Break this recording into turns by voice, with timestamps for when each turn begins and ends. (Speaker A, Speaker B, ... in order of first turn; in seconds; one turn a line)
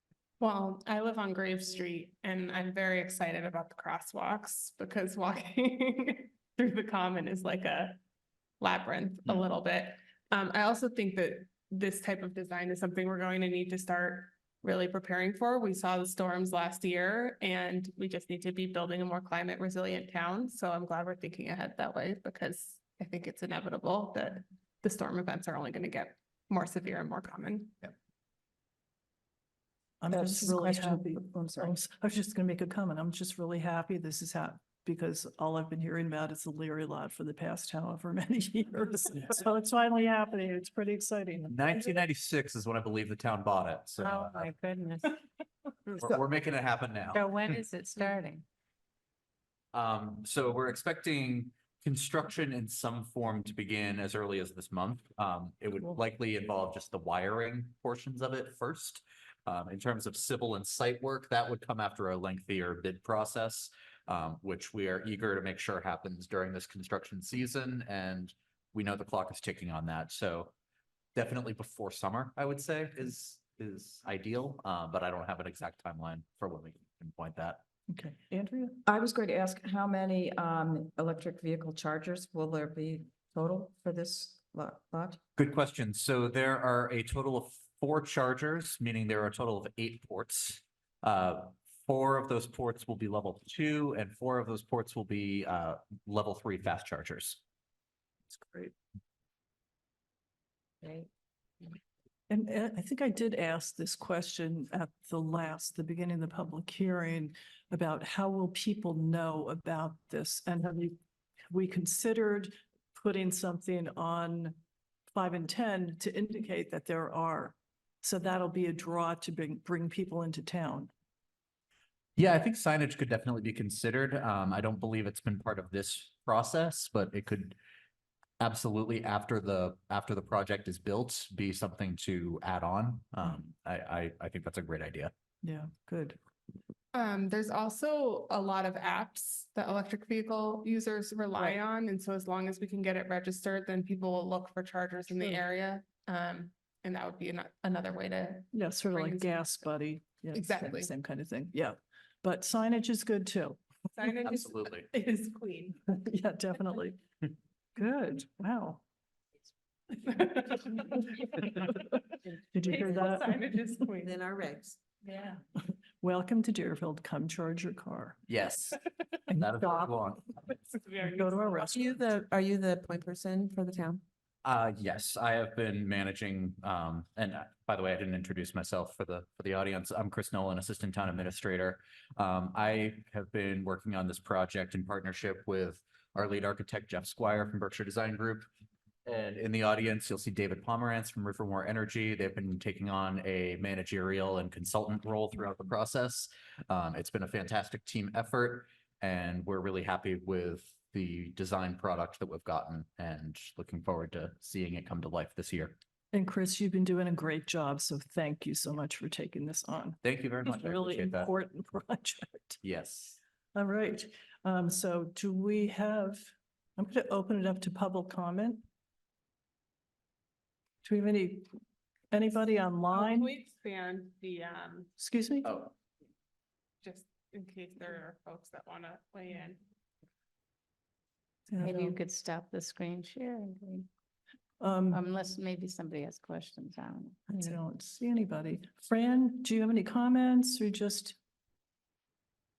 Speaker A: 0.4-8.0
Speaker A: 8.6-27.9
Speaker B: 30.0-41.6
Speaker C: 30.1-31.7
Speaker D: 41.5-44.5
Speaker E: 44.0-45.1
Speaker D: 46.0-47.6
Speaker E: 47.1-48.4
Speaker D: 49.7-70.5
Speaker D: 71.1-77.6
Speaker B: 77.9-78.8
Speaker C: 78.8-85.2
Speaker D: 85.4-97.4
Speaker B: 98.3-98.7
Speaker B: 102.3-111.0
Speaker B: 111.5-114.5
Speaker B: 115.1-120.9
Speaker D: 122.2-127.6
Speaker D: 128.4-135.1
Speaker B: 135.4-136.2
Speaker A: 136.9-149.7
Speaker B: 148.5-153.6
Speaker A: 150.3-150.9
Speaker A: 153.9-155.8
Speaker D: 154.3-154.8
Speaker B: 155.9-157.0
Speaker B: 157.8-158.8
Speaker A: 160.0-161.6
Speaker B: 162.5-163.4
Speaker A: 162.6-164.2
Speaker F: 164.1-164.7
Speaker A: 165.0-165.4
Speaker B: 166.0-168.2
Speaker D: 168.3-168.8
Speaker B: 169.3-169.6
Speaker D: 169.4-170.2
Speaker A: 170.6-171.8
Speaker B: 171.1-171.9
Speaker F: 171.7-174.0
Speaker D: 174.4-188.5
Speaker D: 189.1-205.8
Speaker B: 206.1-212.6
Speaker D: 210.0-211.3
Speaker D: 212.6-213.2
Speaker B: 213.5-216.2
Speaker B: 216.8-218.6
Speaker B: 220.8-221.5
Speaker B: 222.1-223.3
Speaker A: 222.9-224.9
Speaker B: 225.0-225.6
Speaker D: 225.4-225.7
Speaker A: 226.8-229.6
Speaker B: 231.5-231.9
Speaker E: 231.6-233.9
Speaker B: 234.6-235.0
Speaker E: 234.9-237.5
Speaker B: 237.3-241.2